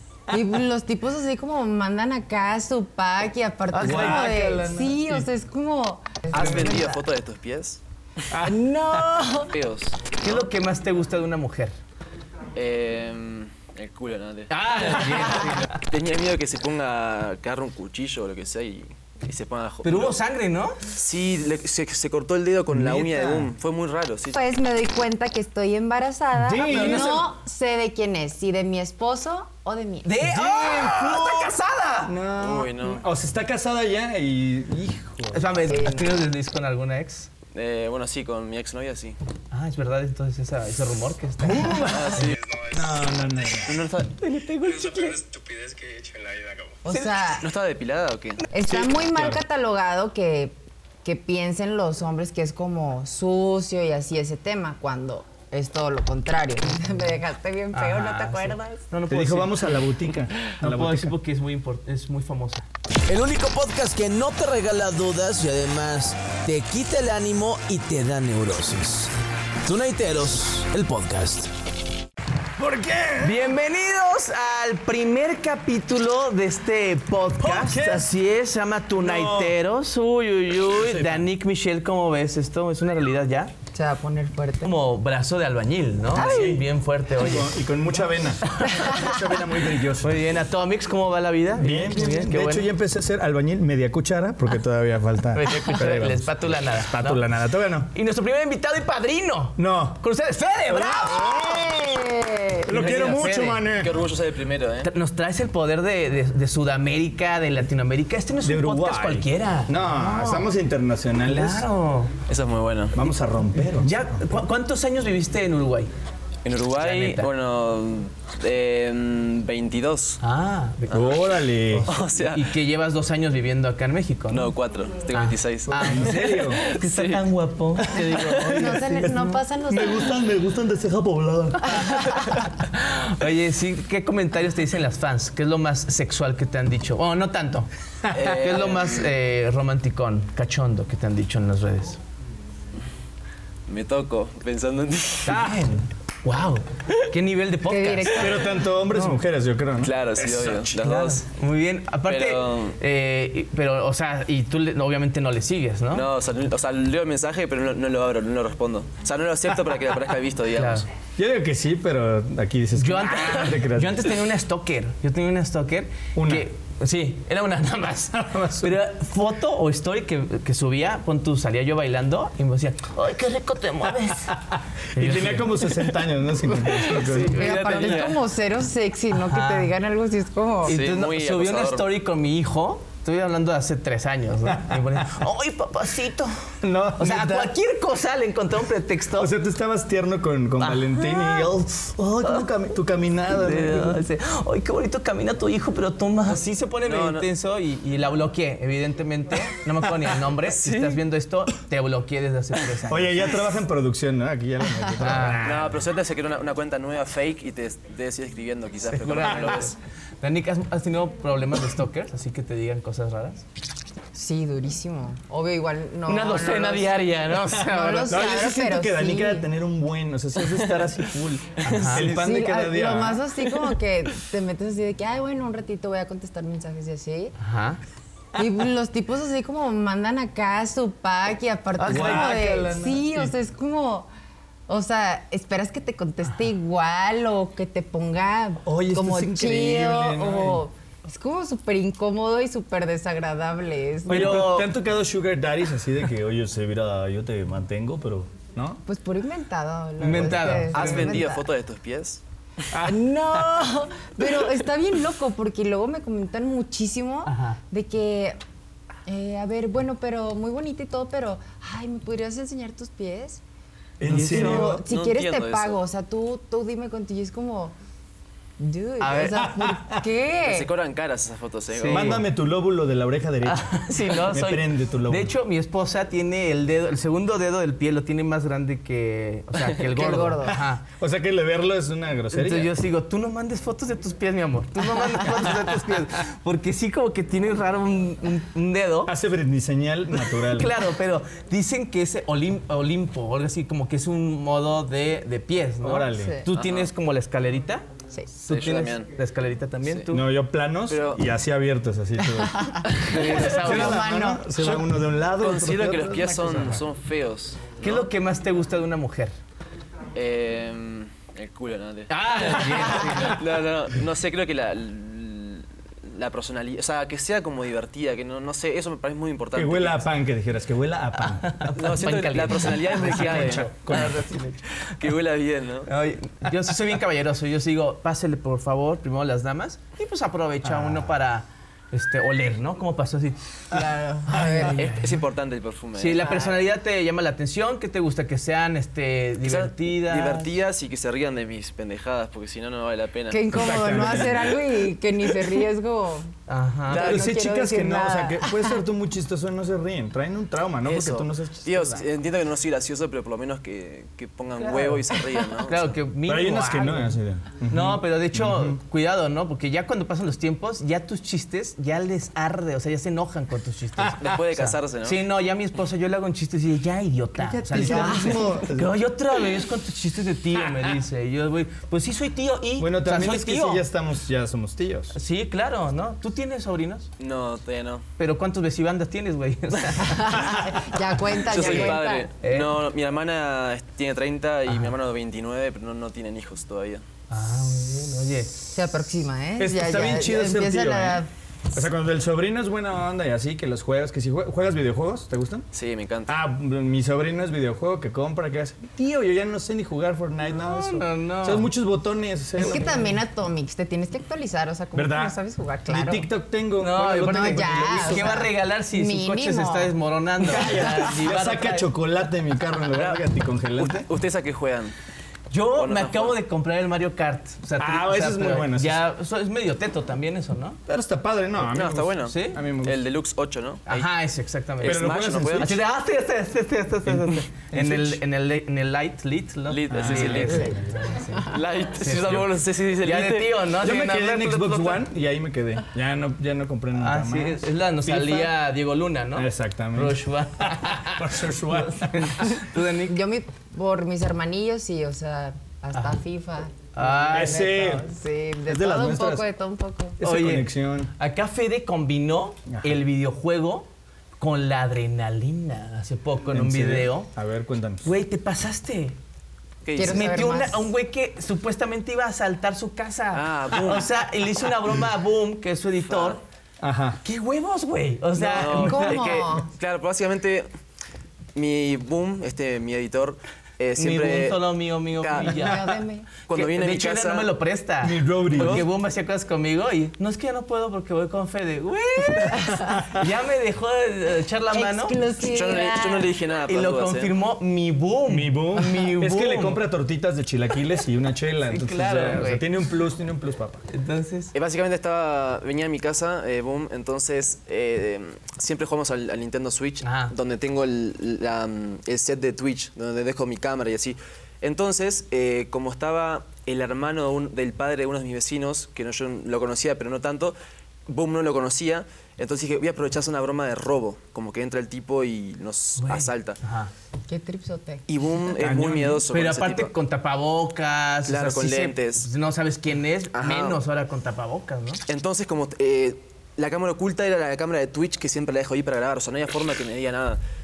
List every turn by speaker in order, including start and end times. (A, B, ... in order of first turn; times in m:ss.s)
0:00.3-0:07.0 A
0:03.7-0:04.2 B
0:03.8-0:05.3 C
0:06.3-0:07.8 D
0:06.3-0:06.8 C
0:08.3-0:09.2 C
0:08.4-0:09.5 A
0:09.5-0:10.5 D
0:10.2-0:11.7 B
0:12.5-0:20.2 D
0:14.5-0:15.8 B
0:19.8-0:20.8 B
0:20.9-0:24.4 D
0:22.7-0:23.5 C
0:24.3-0:30.2 A
0:26.3-0:27.3 C
0:26.6-0:27.3 B
0:30.0-0:32.1 B
0:30.2-0:35.7 C
0:32.4-0:33.0 D
0:35.3-0:37.3 B
0:35.7-0:36.0 A
0:37.5-0:39.2 D
0:39.5-0:41.8 B
0:41.4-0:43.8 C
0:41.9-0:42.4 D
0:42.1-0:43.7 E
0:43.7-0:44.1 D
0:44.2-0:45.2 B
0:44.6-0:46.9 E
0:46.8-0:47.5 A
0:47.4-0:48.4 D
0:48.5-0:58.8 A
0:48.7-0:49.4 C
0:57.7-0:59.9 B
0:59.1-1:01.2 C
1:00.6-1:02.7 B
1:03.1-1:09.1 F
1:09.6-1:11.5 F
1:12.6-1:13.5 C
1:13.2-1:23.5 B
1:17.4-1:18.1 C
1:19.0-1:19.6 C
1:20.7-1:21.3 C
1:23.7-1:24.7 A
1:24.6-1:27.6 B
1:26.2-1:30.2 C
1:26.2-1:26.6 A
1:28.6-1:28.9 B
1:30.0-1:32.7 B
1:31.6-1:37.9 C
1:35.3-1:37.3 B
1:37.9-1:41.4 B
1:39.6-1:40.0 C
1:40.7-1:41.7 C
1:41.1-1:42.7 A
1:42.7-1:44.0 C
1:42.7-1:43.7 B
1:43.8-1:44.9 D
1:44.8-1:50.5 B
1:48.4-1:51.7 C
1:51.2-1:52.2 B
1:52.3-1:53.0 D
1:52.9-1:54.2 C
1:53.8-1:55.9 B
1:56.4-2:00.2 D
1:56.8-1:57.3 B
2:00.2-2:04.5 B
2:00.9-2:01.9 C
2:01.9-2:02.4 D
2:04.3-2:06.1 D
2:05.1-2:09.1 B
2:05.7-2:06.7 C
2:06.6-2:07.2 D
2:07.8-2:12.3 C
2:08.1-2:08.6 D
2:08.5-2:10.1 A
2:11.9-2:22.0 B
2:18.1-2:19.1 D
2:23.7-2:25.4 D
2:25.2-2:29.2 B
2:25.4-2:25.6 C
2:27.7-2:28.6 A
2:28.1-2:31.1 C
2:29.8-2:31.2 D
2:30.7-2:36.1 B
2:32.1-2:32.8 D
2:35.9-2:40.9 D
2:40.6-2:40.9 B
2:41.2-2:44.1 C
2:42.8-2:54.3 B
2:46.2-2:46.5 C
2:48.1-2:48.8 C
2:54.3-2:57.7 C
2:55.0-2:55.9 B
2:56.6-2:58.2 B
2:57.0-2:58.2 D
2:57.3-3:00.8 A
2:59.1-2:59.7 B
3:00.6-3:09.3 B
3:00.7-3:01.9 D
3:04.5-3:05.2 C
3:06.6-3:07.5 C
3:09.2-3:14.0 C
3:10.6-3:11.5 B
3:13.3-3:23.4 B
3:16.9-3:17.3 D
3:20.5-3:21.0 D
3:22.9-3:25.8 C
3:25.0-3:25.6 B
3:25.4-3:29.8 D
3:28.9-3:33.4 B
3:34.1-3:37.0 A
3:36.1-3:38.2 B
3:37.6-3:39.5 A
3:38.1-3:43.2 C
3:41.6-3:42.1 B
3:41.7-3:42.1 D
3:42.1-3:47.3 A
3:47.4-3:47.8 B
3:48.4-3:54.1 A
3:51.8-3:52.7 B
3:51.8-3:53.3 C
3:54.7-4:04.5 A
3:58.6-4:00.6 C
4:04.1-4:04.7 B
4:04.1-4:08.8 C
4:08.8-4:11.5 A
4:10.0-4:11.2 B
4:10.7-4:12.2 D
4:12.7-4:13.6 C
4:12.8-4:18.4 A
4:17.3-4:17.6 B
4:19.1-4:23.4 A
4:24.0-4:24.8 C
4:24.1-4:24.6 B
4:24.1-4:27.8 A
4:24.1-4:25.8 D
4:28.6-4:30.7 A
4:29.0-4:29.4 B
4:29.2-4:30.0 C
4:30.4-4:32.2 D
4:31.7-4:32.2 B
4:31.9-4:35.3 C
4:33.4-4:40.8 B
4:39.9-4:40.6 A
4:40.0-4:42.7 C
4:42.3-4:49.1 B
4:49.1-4:50.8 C
4:50.2-4:57.9 B
4:55.8-4:56.4 C
4:56.1-4:56.5 A
4:56.5-4:56.9 D
4:58.4-5:00.3 B
4:58.5-4:59.1 D
4:59.9-5:00.1 D
5:00.1-5:02.8 C
5:00.9-5:01.2 D
5:02.4-5:02.9 A
5:02.9-5:03.8 D
5:03.1-5:04.0 B
5:03.3-5:06.8 C
5:03.5-5:04.5 A
5:04.6-5:08.1 D
5:07.8-5:09.3 B
5:10.2-5:20.1 D
5:12.1-5:13.4 B
5:19.5-5:21.7 C
5:21.4-5:24.6 B
5:21.8-5:24.1 D
5:22.9-5:24.6 C
5:24.9-5:25.9 D
5:25.9-5:33.4 B
5:30.6-5:31.1 C
5:33.7-5:34.9 A
5:34.3-5:34.9 C
5:34.6-5:36.5 D
5:36.0-5:40.5 B
5:39.4-5:43.4 D
5:43.3-5:46.3 A
5:43.5-5:44.6 C
5:46.5-5:47.2 B
5:46.9-5:51.9 C
5:46.9-5:48.8 A
5:50.8-5:56.0 D
5:54.6-5:57.1 B
5:56.3-5:58.8 C
5:57.7-6:13.8 B
6:04.2-6:05.2 D
6:07.4-6:09.0 C
6:07.8-6:08.5 A
6:12.8-6:15.2 C
6:15.1-6:17.1 B
6:17.2-6:18.0 D
6:18.2-6:20.9 B
6:20.0-6:22.3 A
6:21.3-6:27.0 D
6:21.5-6:22.7 B
6:24.7-6:24.9 B
6:27.3-6:28.5 B
6:28.7-6:31.3 A
6:29.6-6:31.2 C
6:31.7-6:35.7 C
6:35.7-6:36.4 D
6:36.3-6:43.2 C
6:40.6-6:41.7 B
6:42.6-6:46.3 A
6:45.0-6:48.4 C
6:46.8-6:51.9 B
6:47.2-6:49.9 A
6:50.4-6:54.1 C
6:52.9-6:53.2 D
6:53.8-6:55.0 D
6:55.5-7:00.8 B
6:55.8-6:56.4 D
6:57.8-6:59.0 C
7:00.9-7:03.0 C
7:01.7-7:04.1 D
7:02.2-7:02.6 B
7:03.9-7:11.4 B
7:04.8-7:05.8 D
7:04.8-7:05.8 C
7:07.1-7:08.2 C
7:09.7-7:10.8 D
7:09.9-7:11.3 C
7:11.4-7:13.6 D
7:12.0-7:15.0 B
7:13.8-7:18.5 C
7:17.0-7:21.3 B
7:19.4-7:22.6 C
7:21.8-7:23.2 B
7:23.1-7:30.2 A
7:25.9-7:26.2 B
7:27.0-7:27.7 B
7:27.3-7:28.1 C
7:28.7-7:29.4 C
7:30.2-7:31.1 C
7:30.2-7:33.9 B
7:32.7-7:33.0 C
7:34.4-7:37.3 B
7:36.5-7:38.1 C
7:38.0-7:39.2 B
7:39.8-7:40.3 D
7:40.0-7:40.9 A
7:40.0-7:46.4 B
7:43.3-7:44.1 D
7:46.1-7:46.4 D
7:46.8-7:47.2 C
7:47.2-7:49.4 B
7:48.4-7:50.7 D
7:48.7-7:49.7 A
7:51.6-7:55.8 D
7:54.0-7:55.9 B
7:55.4-7:56.3 A
7:56.5-7:57.5 D
7:56.5-8:05.2 B
7:58.0-7:58.9 C
7:58.6-7:58.9 D
8:02.5-8:03.0 C
8:04.7-8:06.3 A
8:05.4-8:07.4 D
8:06.7-8:09.8 B
8:08.3-8:13.8 C
8:11.7-8:12.7 B
8:13.9-8:14.5 B
8:14.5-8:36.6 D
8:20.0-8:20.3 B
8:36.0-8:36.9 B
8:37.3-8:38.1 A
8:38.1-8:39.9 D
8:38.6-8:39.3 C
8:39.3-8:45.0 B
8:41.3-8:42.3 D
8:43.3-8:43.8 D
8:45.1-8:50.4 D